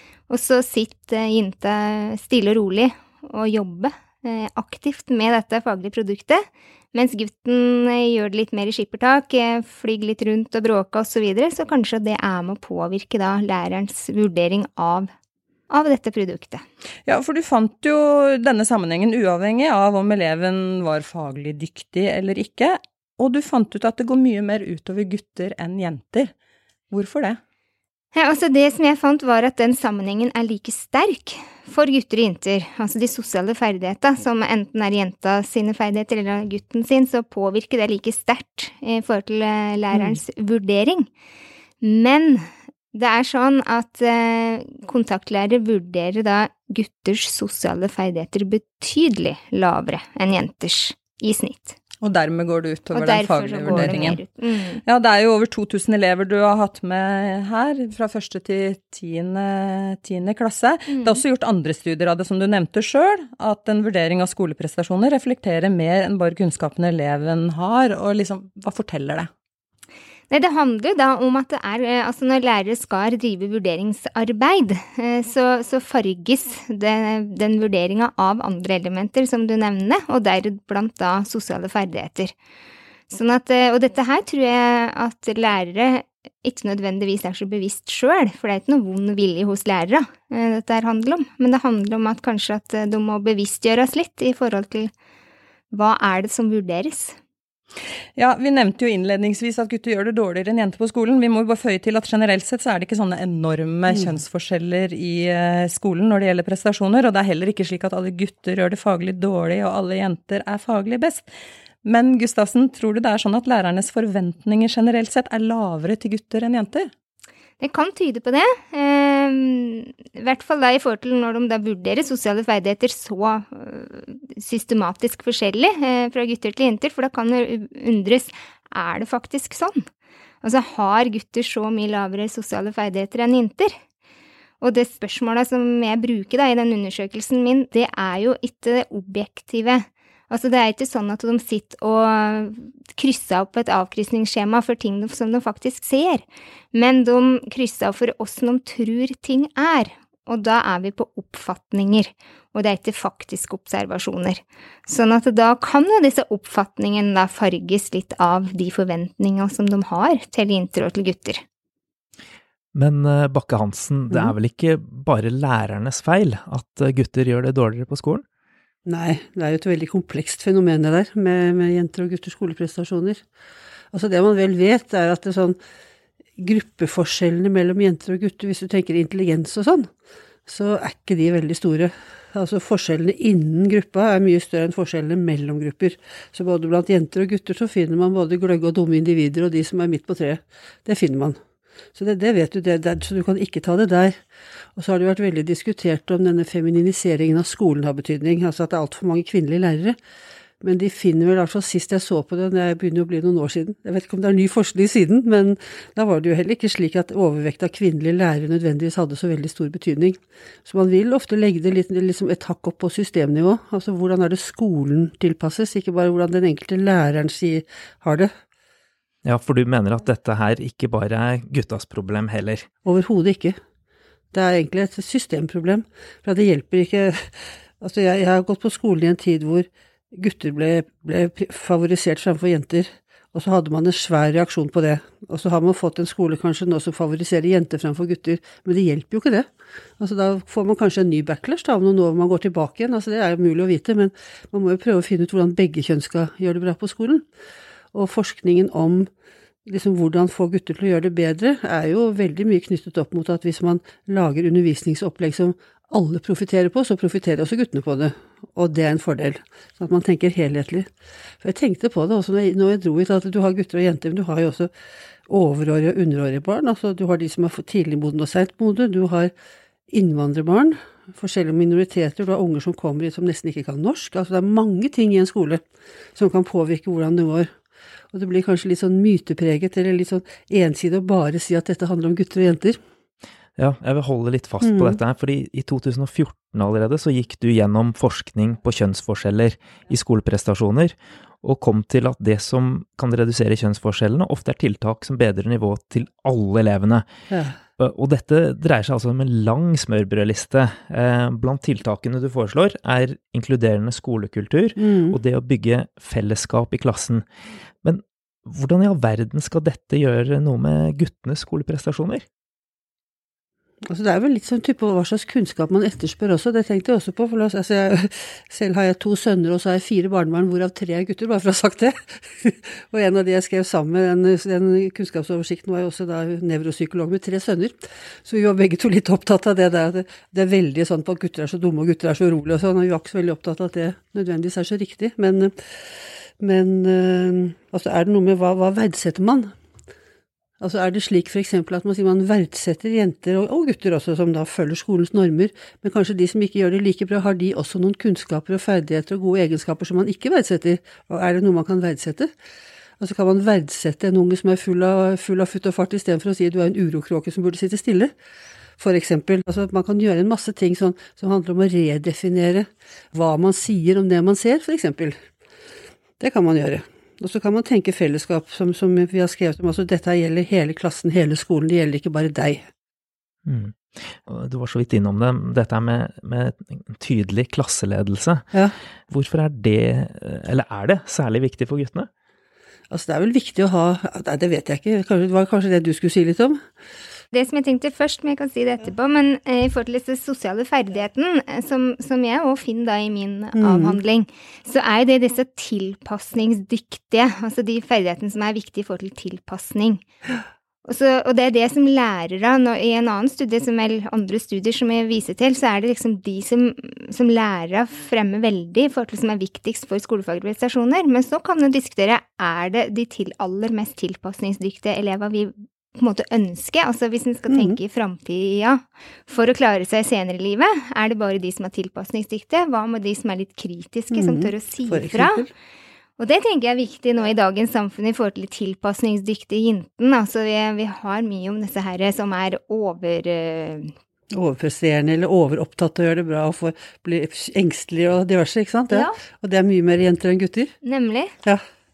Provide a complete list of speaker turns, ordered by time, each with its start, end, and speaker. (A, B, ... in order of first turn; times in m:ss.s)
0:00.3-0:15.1 A
0:15.7-0:16.6 A
0:17.1-0:26.3 B
0:26.9-0:27.4 B
0:28.1-0:41.1 A
0:39.9-0:40.2 C
0:41.8-0:51.8 A
0:52.0-0:54.2 B
0:52.9-0:54.8 A
0:54.8-1:09.3 B
1:10.3-1:22.3 A
1:23.1-1:34.9 A
1:35.7-1:37.2 A
1:38.2-1:51.3 B
1:51.8-1:56.9 B
1:57.6-2:09.8 A
2:10.4-2:13.7 A
2:14.6-2:41.4 A
2:42.7-2:48.2 D
2:48.8-2:53.2 C
2:53.9-2:55.6 C
2:56.4-2:59.9 C
3:00.4-3:11.4 C
3:11.9-3:14.2 C
3:14.8-3:20.0 C
3:20.6-3:38.3 C
3:39.2-3:42.6 D
3:42.8-3:43.6 C
3:44.3-3:59.5 C
4:00.0-4:07.2 C
4:07.9-4:09.1 C
4:09.6-4:20.9 C
4:21.4-4:24.7 C
4:25.3-4:29.3 C
4:29.9-4:35.6 C
4:36.2-4:37.5 C
4:38.1-4:42.8 C
4:43.6-4:57.0 D
4:44.6-4:45.0 C
4:57.3-4:57.5 C
4:57.8-5:07.2 D
5:04.8-5:05.2 C
5:07.8-5:12.2 D
5:13.9-5:35.5 C
5:36.4-5:39.5 C
5:40.6-5:52.3 C
5:53.0-5:58.1 C
5:58.8-6:05.2 C
6:06.2-6:12.6 C
6:13.4-6:18.4 D
6:19.1-6:22.1 D
6:22.9-6:26.6 C
6:27.3-6:40.0 A
6:33.6-6:34.0 C
6:40.8-7:05.4 A
6:57.5-6:57.8 C
7:04.1-7:05.5 C
7:06.2-7:13.9 A
7:14.3-7:20.7 C
7:18.9-7:19.2 A
7:20.8-7:21.3 A